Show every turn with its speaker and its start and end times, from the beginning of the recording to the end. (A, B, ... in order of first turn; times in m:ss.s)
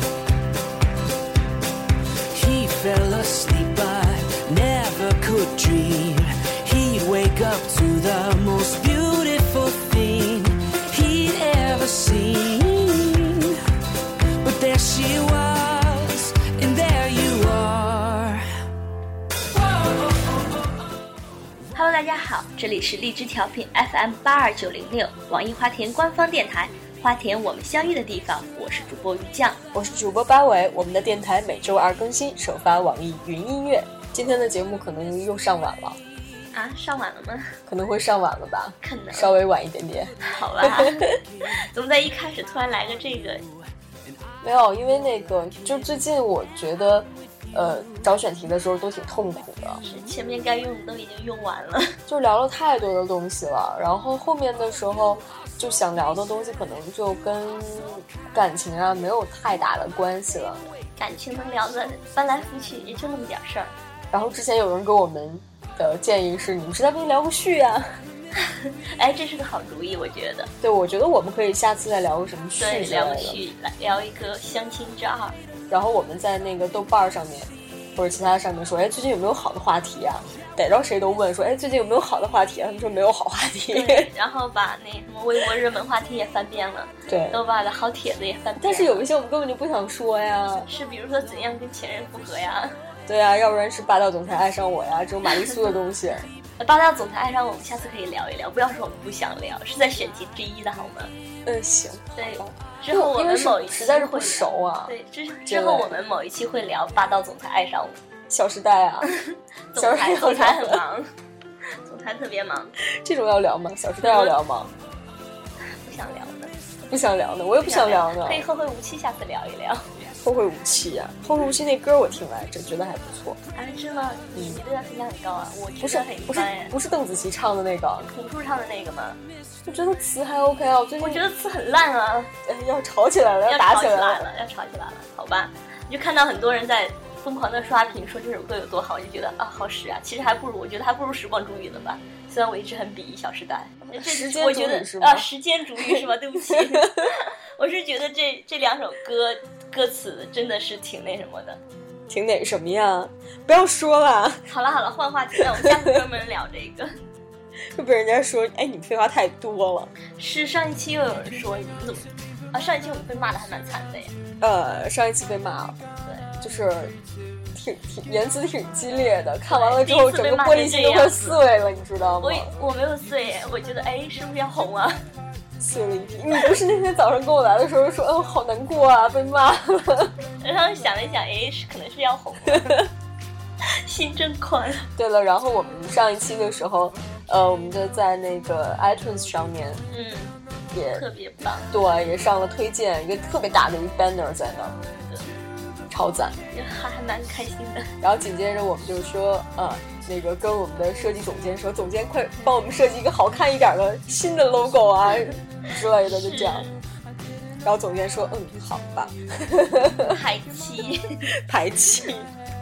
0:02.3-0:13.6 A
0:14.4-0:18.5 A
0:21.7-0:29.6 B
0:29.7-0:36.0 C
0:36.5-0:37.6 B
0:37.7-0:41.1 C
0:38.8-0:39.4 B
0:40.2-0:43.5 B
0:44.4-0:49.8 C
0:49.8-0:52.0 B
0:52.1-1:00.6 C
1:01.0-1:03.7 B
1:04.1-1:07.9 C
1:08.4-1:10.5 B
1:10.6-1:13.4 C
1:12.6-1:15.4 B
1:15.7-1:24.1 C
1:23.7-1:29.1 B
1:27.1-1:27.4 C
1:28.6-1:30.7 C
1:30.7-1:32.8 B
1:33.1-1:36.3 C
1:35.4-1:35.7 B
1:36.6-1:41.1 B
1:41.5-1:44.9 C
1:42.2-1:48.0 B
1:45.5-1:46.0 C
1:48.3-1:49.1 C
1:49.1-1:51.1 B
1:49.8-1:50.8 C
1:51.8-1:52.7 B
1:52.8-1:54.7 C
1:54.0-1:54.4 B
1:55.7-1:56.5 B
1:56.9-1:58.4 C
1:57.6-2:00.1 B
2:00.2-2:03.4 C
2:03.6-2:06.7 B
2:05.8-2:08.1 C
2:08.1-2:09.2 B
2:09.7-2:11.2 C
2:11.0-2:12.3 B
2:12.5-2:14.3 C
2:13.5-2:31.6 B
2:23.9-2:25.3 C
2:25.8-2:27.1 C
2:32.1-2:34.4 C
2:34.5-2:37.0 B
2:37.7-2:39.9 C
2:40.2-2:44.1 B
2:44.4-2:45.8 C
2:46.4-2:46.9 C
2:47.5-2:52.5 C
2:49.5-2:51.4 B
2:52.2-2:55.0 B
2:55.6-3:00.2 C
3:00.4-3:02.8 B
3:02.5-3:02.9 C
3:03.6-3:04.8 B
3:04.9-3:09.8 C
3:09.9-3:10.4 B
3:10.7-3:11.0 C
3:10.9-3:11.7 B
3:11.7-3:14.8 C
3:15.0-3:15.3 B
3:15.9-3:16.4 C
3:16.5-3:17.9 B
3:18.0-3:26.7 C
3:26.0-3:26.7 B
3:27.6-3:30.2 C
3:30.0-3:31.3 B
3:31.3-3:32.3 C